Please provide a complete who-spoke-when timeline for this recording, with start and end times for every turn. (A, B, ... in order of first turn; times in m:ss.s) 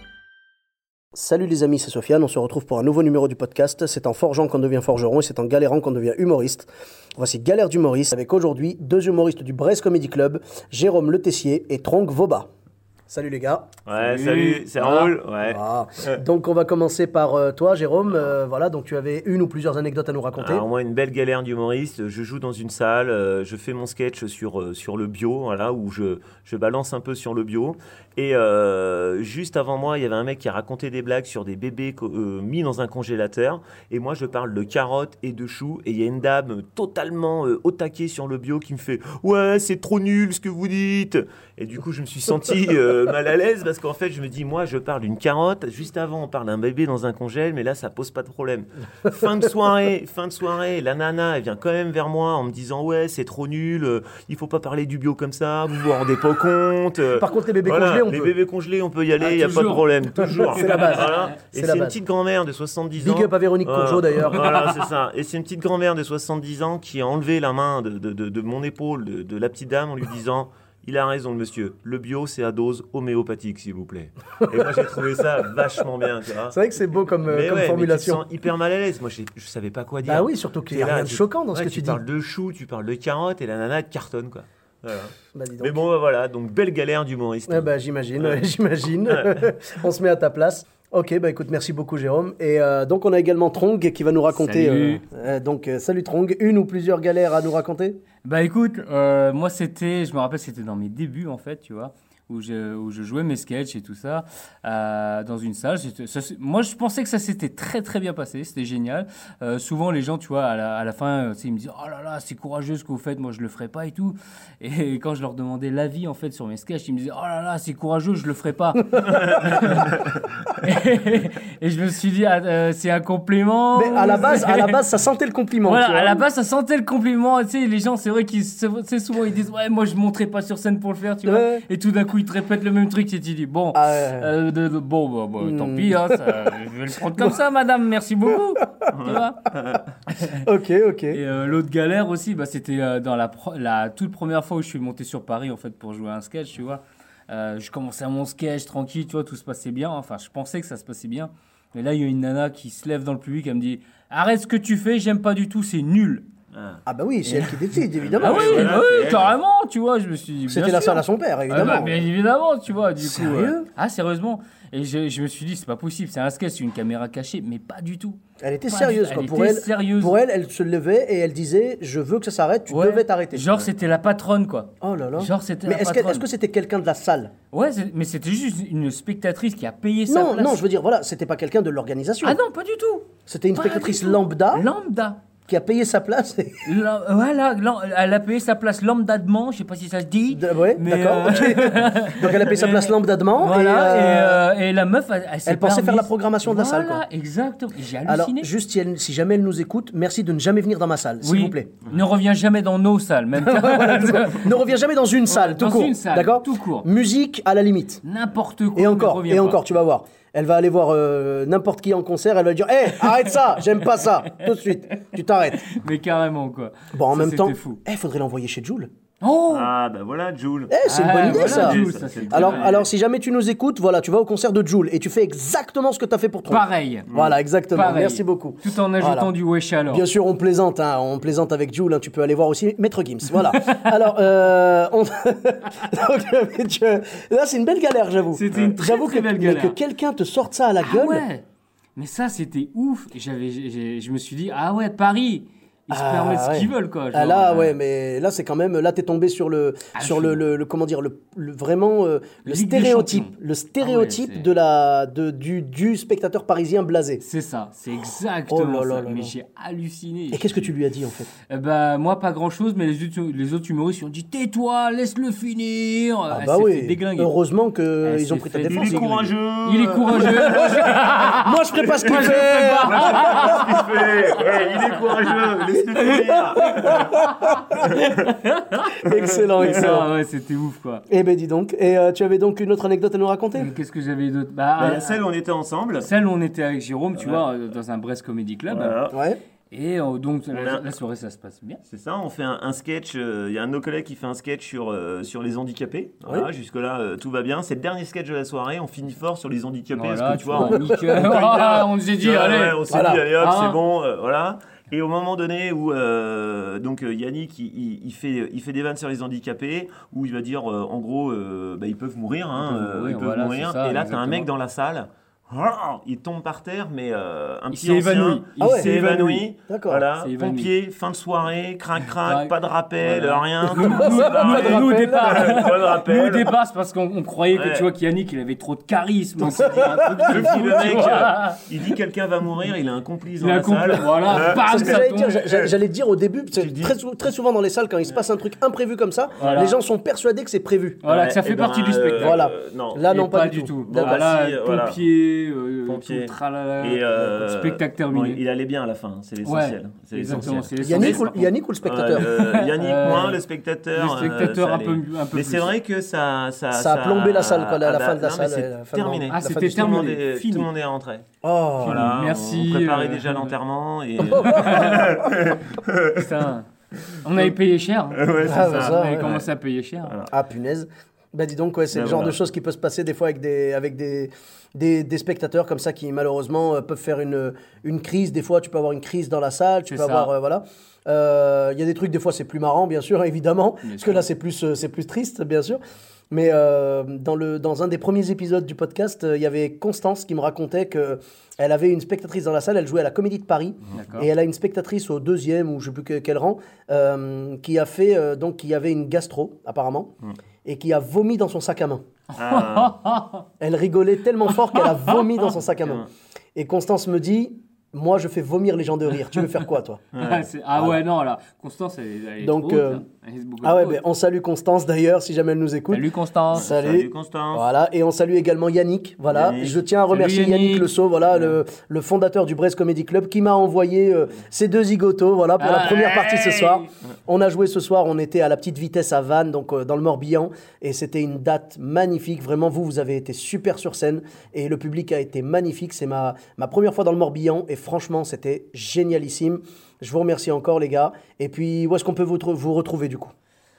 0:01.1-0:12.5 A
0:13.1-0:13.7 A
0:13.9-0:16.2 B
0:13.9-0:15.2 C
0:15.4-0:20.6 A
0:20.4-1:16.6 B
0:57.2-0:58.4 A
0:59.2-1:01.0 C
1:00.5-1:02.0 A
1:03.0-1:04.5 A
1:16.5-1:18.2 A
1:17.2-1:28.4 B
1:20.0-1:22.0 A
1:25.3-1:25.8 A
1:27.5-1:38.0 A
1:29.1-1:29.4 B
1:34.3-1:35.0 C
1:38.2-2:00.0 C
2:00.6-2:04.8 C
2:03.7-2:06.2 A
2:05.6-2:19.5 C
2:11.2-2:11.6 A
2:13.7-2:14.3 A
2:15.4-2:16.6 A
2:18.9-2:19.9 B
2:20.1-2:20.4 C
2:20.4-2:21.2 A
2:21.1-2:36.3 C
2:36.5-2:36.8 B
2:36.9-2:38.8 A
2:37.2-2:37.6 C
2:38.0-2:39.3 B
2:38.2-2:50.2 C
2:40.5-2:42.0 A
2:43.0-2:43.6 A
2:48.4-2:53.6 A
2:52.7-2:56.3 C
2:54.8-2:57.3 A
2:57.5-3:00.6 C
3:00.1-3:02.4 A
3:02.2-3:05.2 C
3:03.3-3:04.7 A
3:05.5-3:06.7 A
3:06.6-3:18.5 C
3:10.3-3:14.5 A
3:15.5-3:17.0 A
3:18.0-3:21.7 A
3:21.2-3:24.6 C
3:23.4-3:28.0 A
3:25.2-3:26.9 C
3:28.0-3:29.6 C
3:28.8-3:35.6 A
3:33.2-3:34.6 C
3:35.7-3:37.8 C
3:36.9-3:38.9 A
3:39.2-3:39.7 C
3:39.5-3:42.9 B
3:40.7-3:41.8 A
3:40.8-3:42.8 C
3:42.3-3:49.3 A
3:46.5-3:47.1 C
3:47.1-3:47.4 B
3:47.7-3:50.0 C
3:49.9-4:01.2 A
3:53.6-3:53.9 C
3:58.3-3:59.8 C
4:00.8-4:07.8 C
4:05.9-4:17.2 A
4:10.0-4:10.4 C
4:12.4-4:14.6 C
4:17.2-4:20.7 C
4:18.5-4:19.3 A
4:20.3-4:21.3 A
4:21.5-4:27.3 C
4:26.3-4:29.3 A
4:28.0-4:33.8 C
4:28.7-4:30.7 B
4:30.5-4:33.9 A
4:32.1-4:38.2 B
4:36.5-4:37.1 A
4:36.9-4:38.9 C
4:39.0-4:40.1 A
4:39.6-4:41.1 C
4:39.6-4:40.0 B
4:41.1-4:43.7 A
4:43.6-4:45.2 C
4:44.8-4:46.1 B
4:46.0-4:49.0 C
4:47.2-4:47.5 B
4:48.7-4:49.2 B
4:49.1-4:49.4 A
4:49.7-4:51.8 C
4:50.5-4:50.9 B
4:51.8-5:26.5 B
4:59.9-5:03.8 C
5:00.5-5:01.2 A
5:02.9-5:03.2 A
5:12.6-5:14.5 C
5:17.7-5:19.4 C
5:18.6-5:18.9 A
5:19.7-5:20.0 A
5:20.2-5:20.7 C
5:22.1-5:31.6 C
5:23.7-5:25.7 A
5:27.5-5:27.9 B
5:29.4-5:31.1 A
5:30.3-5:35.0 B
5:33.4-5:35.6 C
5:34.6-5:41.0 A
5:36.6-5:37.0 B
5:39.4-5:39.7 B
5:39.4-5:39.8 C
5:41.0-5:42.4 C
5:41.1-5:43.1 B
5:42.2-5:44.2 A
5:43.1-5:48.4 C
5:43.8-5:45.0 B
5:45.9-5:51.3 B
5:49.4-5:51.5 C
5:50.8-5:52.3 A
5:51.8-6:01.2 B
5:52.1-5:53.4 C
5:53.9-5:55.7 C
5:56.7-6:00.1 A
5:59.3-6:00.7 C
6:01.4-6:02.2 A
6:01.8-6:03.5 C
6:01.8-6:06.4 B
6:04.2-6:05.2 A
6:04.4-6:05.0 C
6:06.2-6:06.7 C
6:07.2-6:10.2 C
6:08.2-6:09.5 B
6:08.4-6:09.4 A
6:10.0-6:10.3 B
6:10.3-6:25.8 A
6:11.9-6:12.4 B
6:19.9-6:20.3 C
6:23.8-6:24.2 C
6:26.3-6:40.1 A
6:33.9-6:34.3 C
6:40.6-6:42.0 A
6:42.4-6:43.0 B
6:42.4-6:43.4 C
6:43.6-6:46.0 A
6:44.5-6:45.2 C
6:46.6-6:50.0 A
6:50.1-6:50.5 B
6:50.2-6:54.0 C
6:50.7-6:51.0 A
6:52.4-6:53.0 A
6:53.6-7:23.3 A
6:55.9-6:56.7 C
6:56.5-6:57.6 B
6:59.3-6:59.8 B
7:00.1-7:01.6 C
7:05.6-7:06.9 C